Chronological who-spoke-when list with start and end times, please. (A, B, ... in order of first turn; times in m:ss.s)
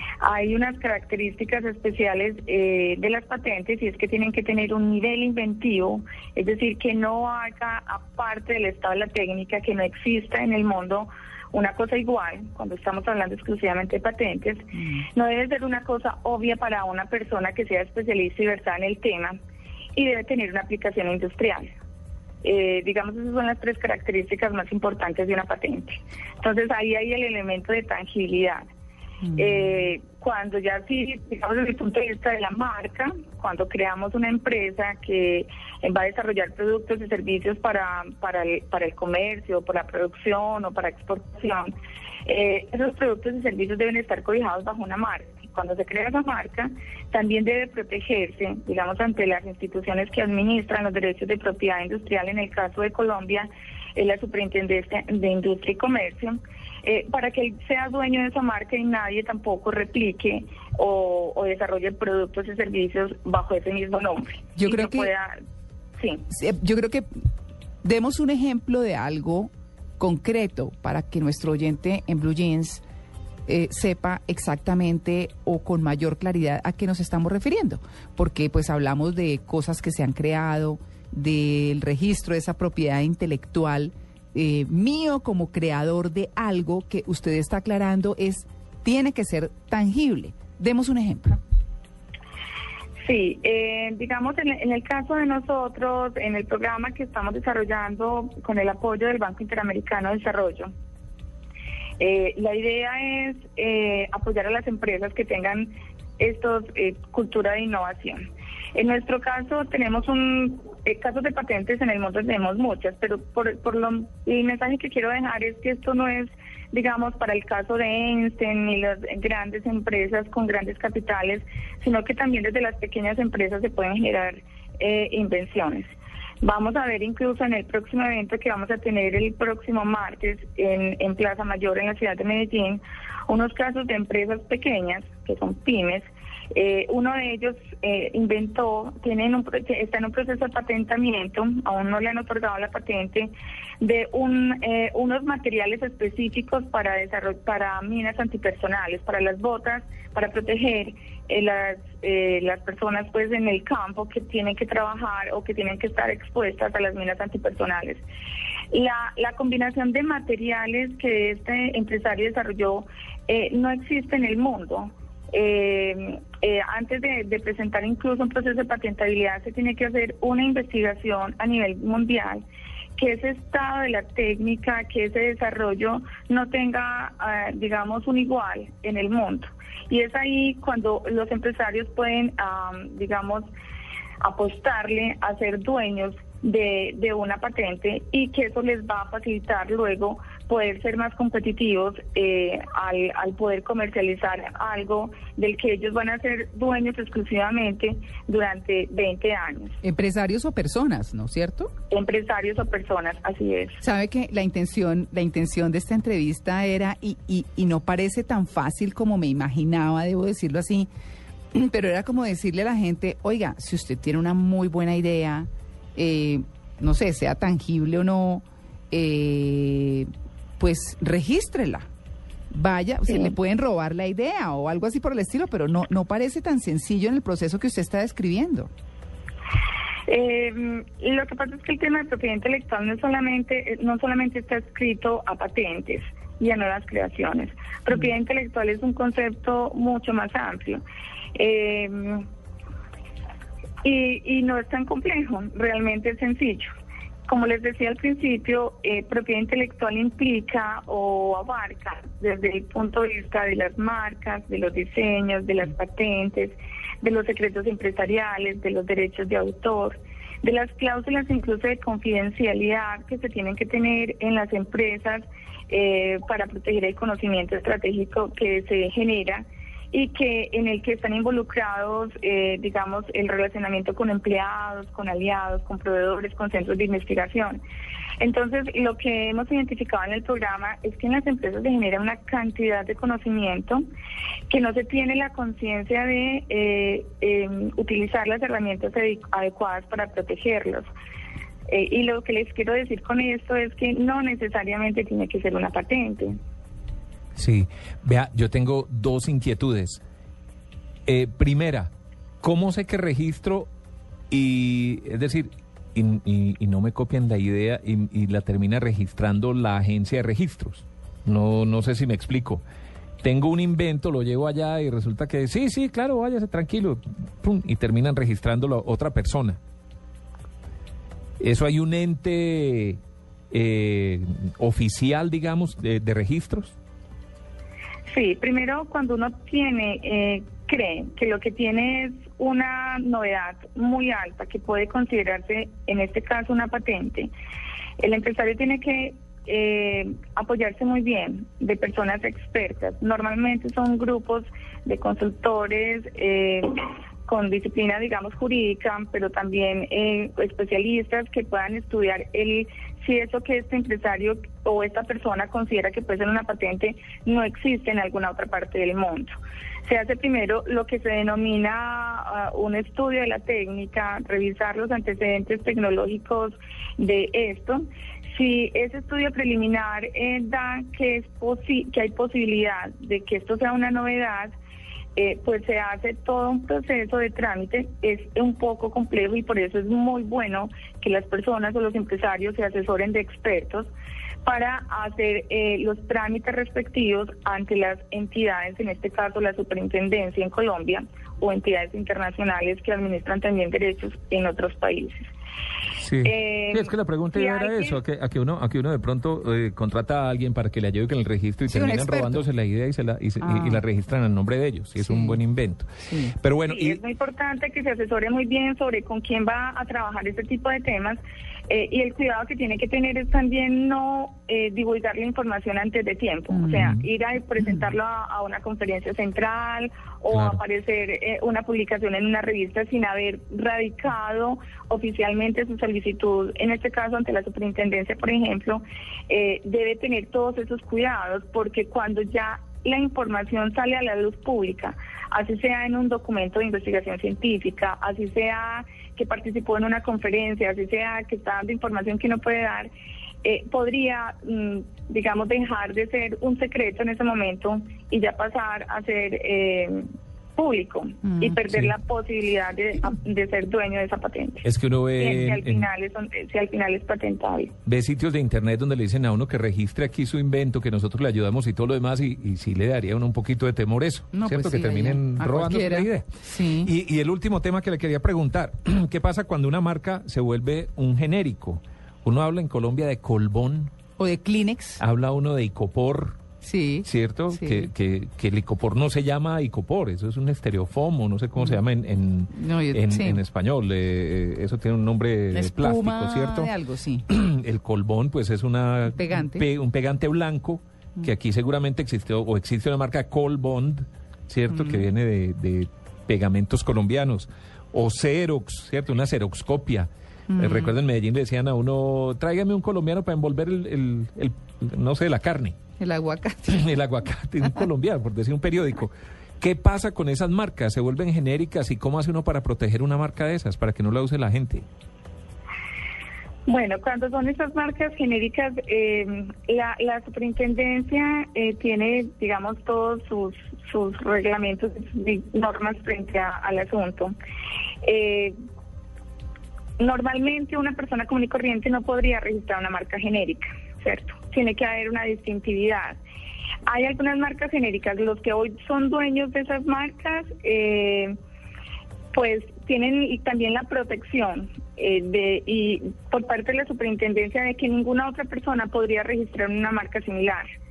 0:00.2-0:19.4 A
0:14.8-0:15.1 B
0:20.0-0:21.7 A
0:22.4-0:28.6 A
0:29.3-0:41.7 A
0:42.3-1:05.4 A
1:04.6-1:05.1 B
1:06.0-1:06.2 A
1:06.3-1:07.1 B
1:07.8-1:12.8 B
1:13.5-1:31.4 B
1:33.0-1:40.7 A
1:42.0-2:38.0 A
2:38.7-2:52.4 A
2:53.0-3:03.5 A
3:04.2-3:19.8 A
3:19.8-3:21.7 B
3:21.9-3:23.8 A
3:23.8-3:30.9 B
3:31.5-3:41.9 B
3:42.5-3:48.7 B
3:50.1-4:00.8 A
4:01.4-4:02.3 A
4:03.8-4:06.7 A
4:07.3-4:37.6 A
4:38.2-4:43.8 A
4:44.5-4:50.9 A
4:51.7-4:56.4 A
4:57.4-5:00.0 C
5:01.1-5:01.9 C
5:02.4-5:03.7 C
5:04.3-5:12.6 C
5:13.2-5:19.6 C
5:21.4-5:23.0 C
5:23.5-5:26.8 C
5:28.1-5:37.3 A
5:38.0-5:46.7 A
5:47.3-6:14.6 A
6:15.2-6:23.9 A
6:24.4-6:35.3 A
6:36.0-6:47.0 C
6:36.2-6:38.0 A
6:41.7-6:42.4 B
6:43.4-6:43.8 B
6:45.0-6:45.4 B
6:46.0-6:46.4 B
6:46.7-7:22.9 A
6:56.5-6:56.9 B
7:00.3-7:00.6 C
7:23.4-7:37.7 A
7:31.7-7:32.0 C
7:34.6-7:35.9 C
7:37.9-7:53.9 C
7:44.3-7:46.9 B
7:54.2-7:55.0 B
7:55.0-7:56.4 C
7:56.6-7:57.9 B
7:57.0-8:06.7 C
8:02.5-8:03.4 B
8:05.5-8:07.3 B
8:07.3-8:25.8 C
8:09.1-8:09.7 B
8:14.7-8:15.0 B
8:20.5-8:21.0 B
8:26.0-8:26.9 B
8:26.7-8:34.8 C
8:36.7-8:47.4 A
8:48.0-8:48.6 A
8:50.0-8:56.2 A
8:56.9-9:01.4 A
9:02.3-9:10.7 A